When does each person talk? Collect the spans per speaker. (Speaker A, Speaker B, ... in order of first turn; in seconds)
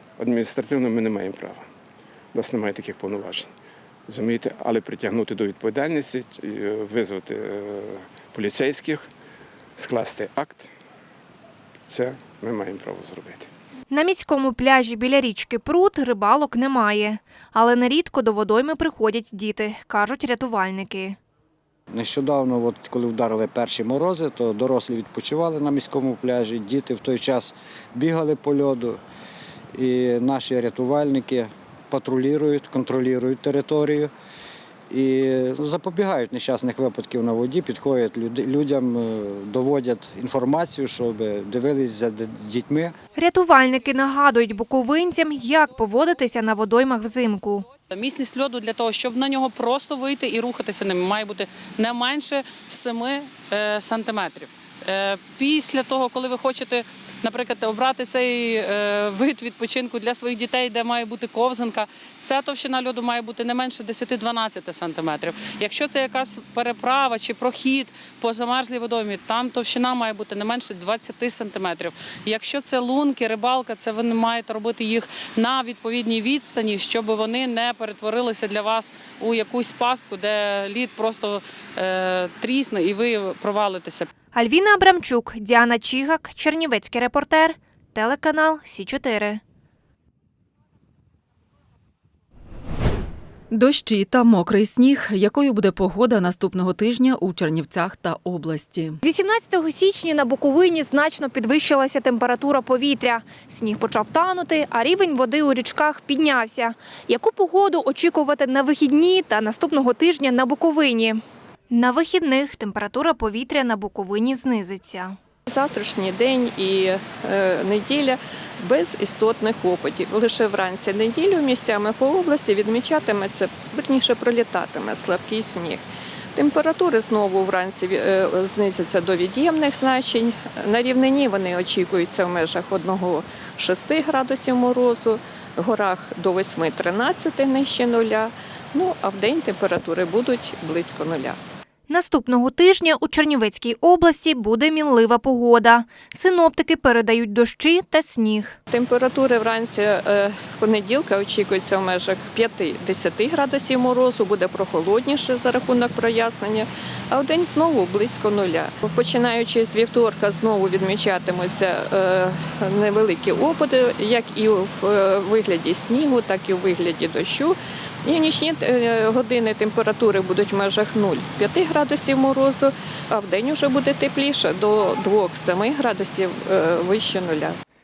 Speaker A: 0.2-1.7, 2.3-3.5, 4.1-9.1, 9.8-10.7, 11.9-13.5
Speaker B: 13.9-21.2, 43.2-47.7, 84.3-89.4, 99.0-111.2, 111.7-115.2, 141.9-148.6
Speaker C: 21.9-29.0, 29.7-34.1, 34.9-43.0
Speaker D: 47.9-84.1
Speaker E: 93.5-99.0
Speaker F: 115.5-125.8, 126.3-141.4, 148.7-177.6